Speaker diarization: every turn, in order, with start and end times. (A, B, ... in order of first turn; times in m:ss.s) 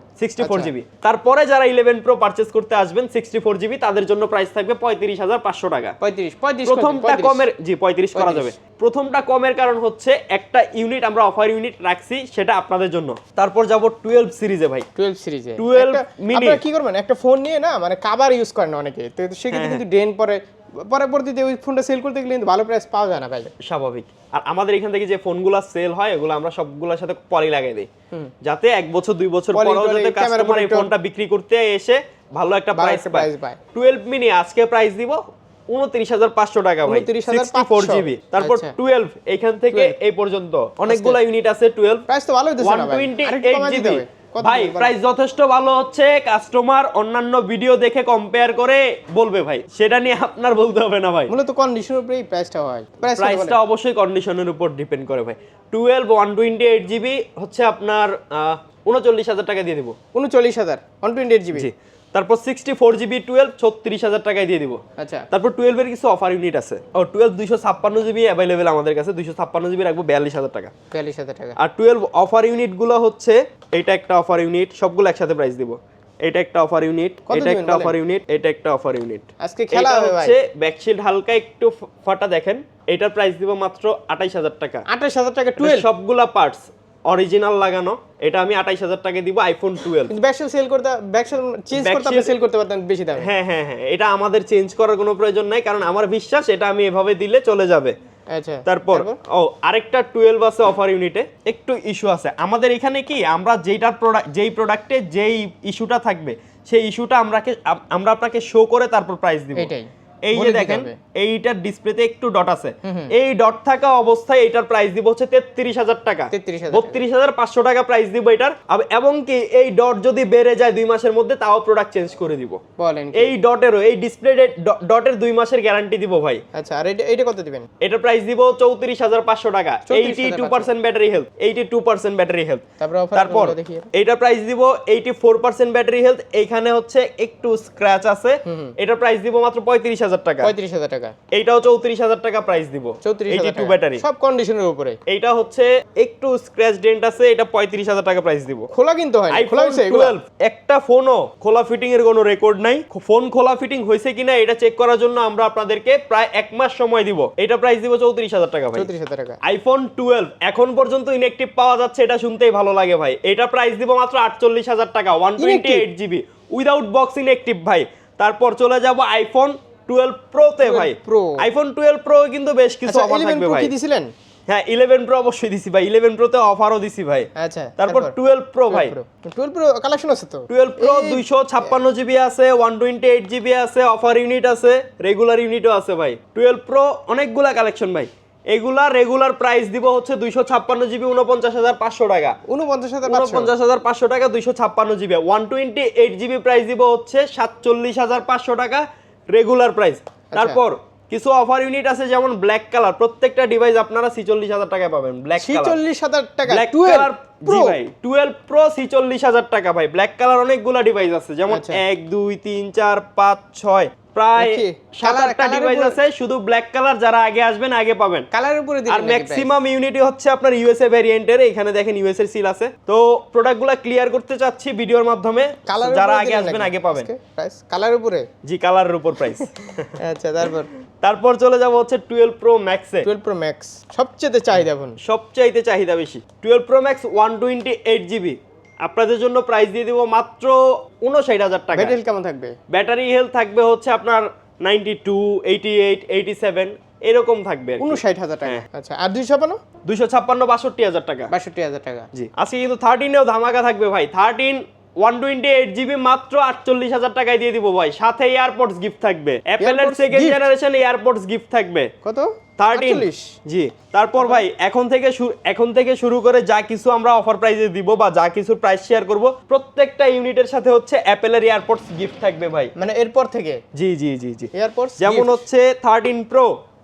0:00.2-0:06.0 A
0:00.4-0:00.7 B
0:06.0-0:07.5 B
0:06.6-0:14.9 A
0:08.1-0:08.5 B
0:15.0-0:23.5 B
0:15.6-0:16.6 A
0:19.5-0:19.8 A
0:23.6-0:27.9 A
0:28.4-0:42.0 A
0:29.5-0:30.9 B
0:32.7-0:33.6 B
0:36.9-0:38.7 B
0:40.9-0:41.2 B
0:42.1-0:44.9 B
0:42.6-0:51.3 A
0:51.3-0:53.6 B
0:53.1-1:00.0 A
1:00.1-1:01.7 B
1:01.5-1:04.8 A
1:05.0-1:05.3 B
1:05.3-1:10.7 A
1:10.9-1:11.6 B
1:11.6-1:24.8 A
1:17.3-1:18.0 B
1:19.4-1:20.4 B
1:24.9-1:25.9 B
1:25.6-1:30.2 A
1:30.0-1:33.3 B
1:31.8-1:32.3 A
1:33.2-1:38.0 A
1:38.4-1:39.2 B
1:38.7-1:49.7 A
1:49.6-1:51.0 B
1:50.2-2:02.6 A
1:52.8-1:53.1 B
1:56.3-1:57.0 B
2:02.8-2:03.4 B
2:03.1-2:06.4 A
2:06.5-2:07.7 B
2:07.8-2:20.5 A
2:09.9-2:10.7 B
2:12.8-2:13.9 B
2:18.5-2:18.7 B
2:20.4-2:21.1 B
2:21.3-2:24.0 A
2:23.0-2:25.0 B
2:25.1-2:28.7 A
2:28.7-2:30.2 B
2:29.3-2:38.9 A
2:38.7-2:39.4 B
2:39.4-2:53.7 A
2:45.4-2:45.9 B
2:50.6-2:51.5 B
2:52.9-2:54.1 B
2:54.5-2:59.0 A
2:57.4-2:58.1 B
2:58.7-3:01.8 B
3:00.5-3:12.4 A
3:12.5-3:13.5 B
3:13.0-3:25.8 A
3:20.3-3:20.6 B
3:25.4-3:27.8 B
3:26.5-3:38.3 A
3:31.5-3:31.8 B
3:34.4-3:36.0 B
3:38.3-3:39.5 B
3:38.9-3:47.1 A
3:45.7-3:48.3 B
3:48.4-3:50.0 A
3:50.0-3:50.7 B
3:51.0-3:53.1 A
3:53.0-3:55.0 B
3:55.0-4:02.0 A
4:01.7-4:02.5 B
4:02.7-4:08.6 A
4:07.8-4:09.6 B
4:09.8-4:11.3 A
4:11.3-4:12.1 B
4:12.1-4:21.9 A
4:19.6-4:20.5 B
4:22.0-4:23.3 B
4:22.6-4:32.7 A
4:24.2-4:24.5 B
4:32.8-4:33.6 B
4:33.7-4:36.6 A
4:34.5-4:35.5 B